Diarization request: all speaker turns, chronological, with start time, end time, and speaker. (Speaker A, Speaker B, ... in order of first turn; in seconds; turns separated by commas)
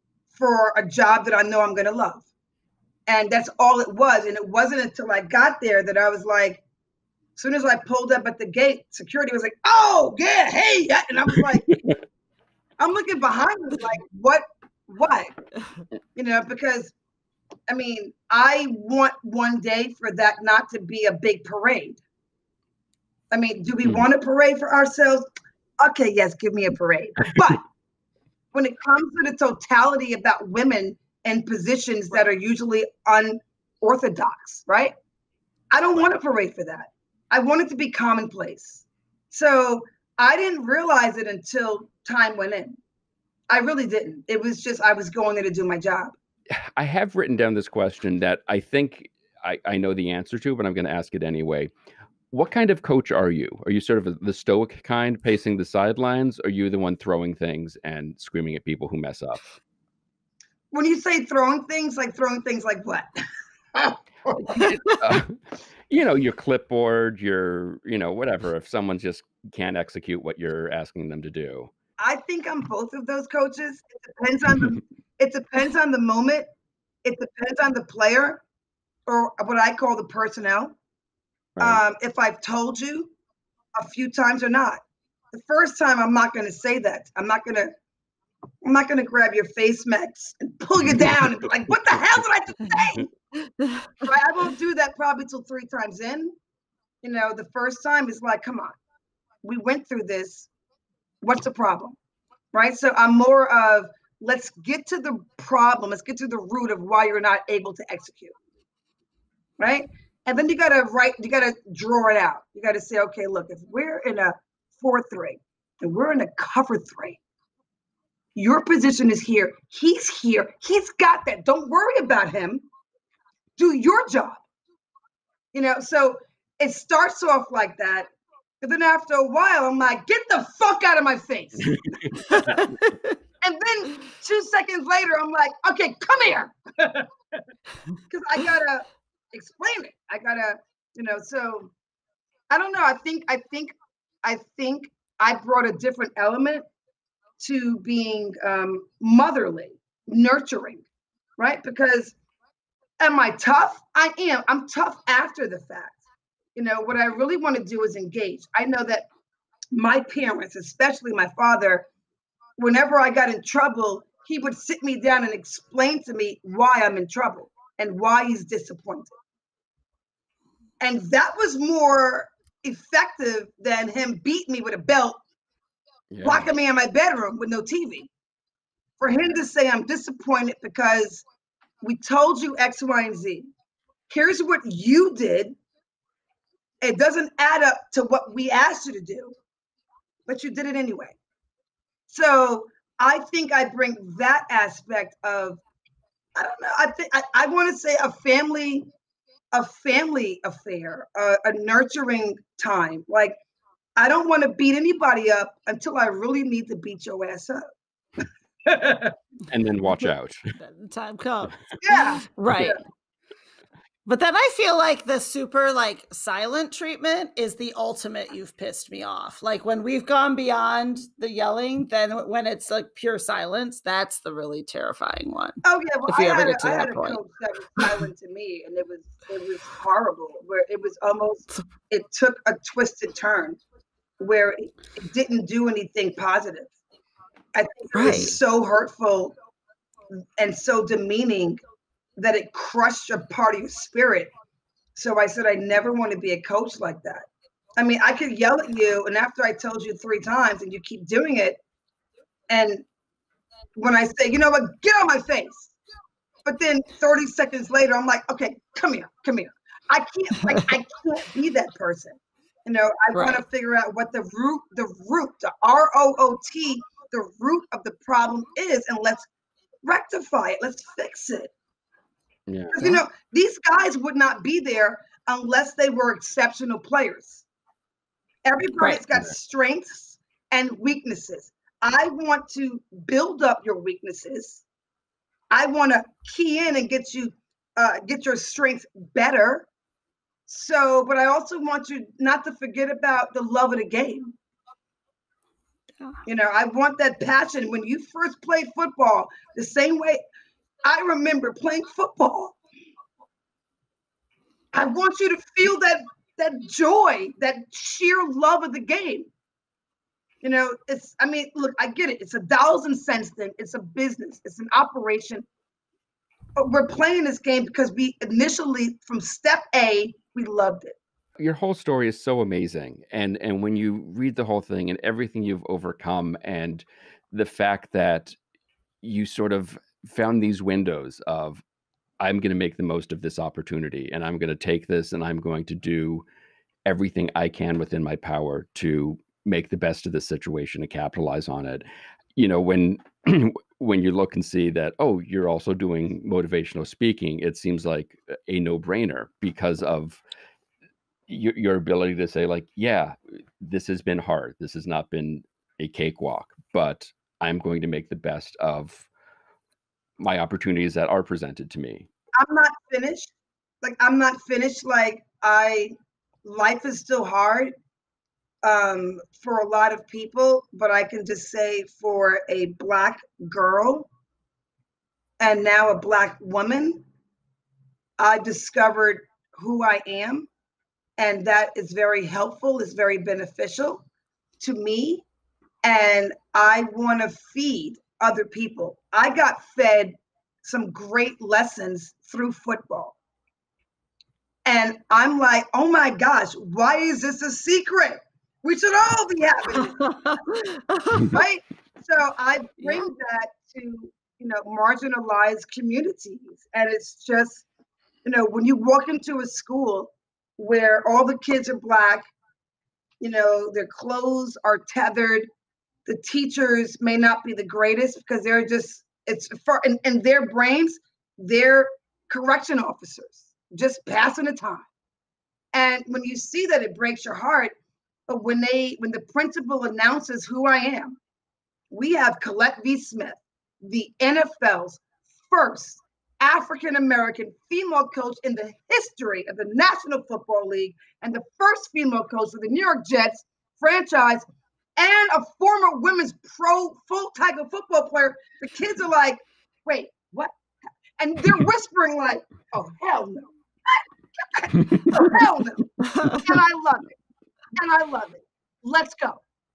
Speaker A: 0.3-2.2, Speaker A: 3.1-6.6, Speaker A: 7.4-11.8, Speaker A: 12.8-15.3, Speaker A: 16.2-16.9, Speaker A: 17.7-22.0, Speaker A: 23.3-25.3, Speaker A: 25.8-27.6, Speaker A: 28.5-34.9, Speaker A: 35.7-42.8, Speaker A: 43.5-46.1, Speaker B: 46.5-51.7, Speaker B: 52.3-59.4, Speaker A: 60.7-63.1, Speaker A: 63.7-64.7, Speaker B: 64.5-71.7, Speaker A: 72.0-76.5, Speaker A: 77.0-78.4, Speaker A: 79.1-80.8, Speaker B: 81.6-81.8, Speaker A: 81.6-83.1, Speaker A: 83.8-84.8, Speaker A: 85.3-87.7, Speaker A: 88.6-93.1, Speaker B: 90.8-91.3, Speaker C: 93.3-93.9, Speaker A: 94.0-96.3, Speaker A: 97.0-98.8, Speaker A: 99.4-100.5, Speaker A: 101.2-102.0, Speaker A: 102.5-108.3, Speaker A: 109.6-117.2, Speaker A: 118.3-122.7, Speaker A: 123.6-124.4, Speaker A: 125.5-128.1, Speaker A: 128.6-131.8, Speaker B: 131.7-132.4, Speaker C: 132.3-133.2, Speaker A: 133.4-137.1, Speaker A: 138.1-141.7, Speaker A: 142.5-146.7, Speaker A: 147.4-150.8, Speaker A: 151.4-152.1, Speaker A: 153.0-156.0, Speaker A: 156.6-159.1, Speaker A: 159.7-161.9, Speaker A: 162.6-169.1, Speaker A: 170.8-175.2, Speaker B: 176.1-176.5, Speaker A: 176.2-178.1, Speaker A: 179.0-181.2, Speaker A: 181.8-183.5, Speaker A: 184.1-185.6, Speaker A: 186.8-189.3, Speaker A: 190.3-191.2, Speaker A: 192.1-195.6, Speaker A: 196.3-198.9, Speaker A: 199.5-203.4, Speaker A: 204.0-207.7, Speaker A: 208.7-209.2, Speaker B: 209.5-210.6, Speaker C: 210.6-212.8, Speaker A: 211.8-212.8, Speaker C: 214.1-227.2, Speaker A: 225.6-233.6, Speaker A: 234.2-236.7, Speaker A: 237.6-239.3, Speaker C: 237.9-238.3, Speaker A: 240.4-241.6, Speaker A: 242.2-244.3, Speaker A: 244.9-251.6, Speaker A: 252.5-252.8, Speaker A: 253.8-255.7, Speaker A: 256.5-269.3, Speaker C: 263.1-263.4, Speaker A: 269.8-271.5, Speaker B: 272.5-272.9, Speaker A: 272.7-277.4, Speaker A: 278.4-284.6, Speaker A: 285.5-289.7, Speaker A: 290.5-294.3, Speaker A: 296.3-300.2, Speaker A: 300.8-302.6, Speaker A: 304.7-309.3, Speaker A: 310.4-315.5, Speaker A: 316.6-320.9, Speaker B: 321.4-328.4, Speaker B: 329.0-331.6, Speaker B: 332.2-336.2, Speaker B: 336.9-350.2, Speaker B: 351.3-359.1, Speaker B: 360.2-362.1, Speaker A: 362.4-365.9, Speaker A: 366.4-367.7, Speaker A: 368.6-374.1, Speaker A: 375.4-377.0, Speaker A: 378.2-380.5, Speaker A: 381.2-384.0, Speaker A: 384.6-385.2, Speaker A: 385.8-393.2, Speaker A: 394.6-400.1, Speaker C: 400.0-401.4, Speaker A: 401.2-407.6, Speaker A: 408.2-412.3, Speaker A: 413.2-415.5, Speaker A: 416.1-424.9, Speaker A: 425.7-427.7, Speaker A: 428.3-431.2, Speaker A: 431.9-444.4, Speaker A: 445.0-450.5, Speaker A: 451.2-457.1, Speaker C: 456.1-456.5, Speaker A: 457.8-459.4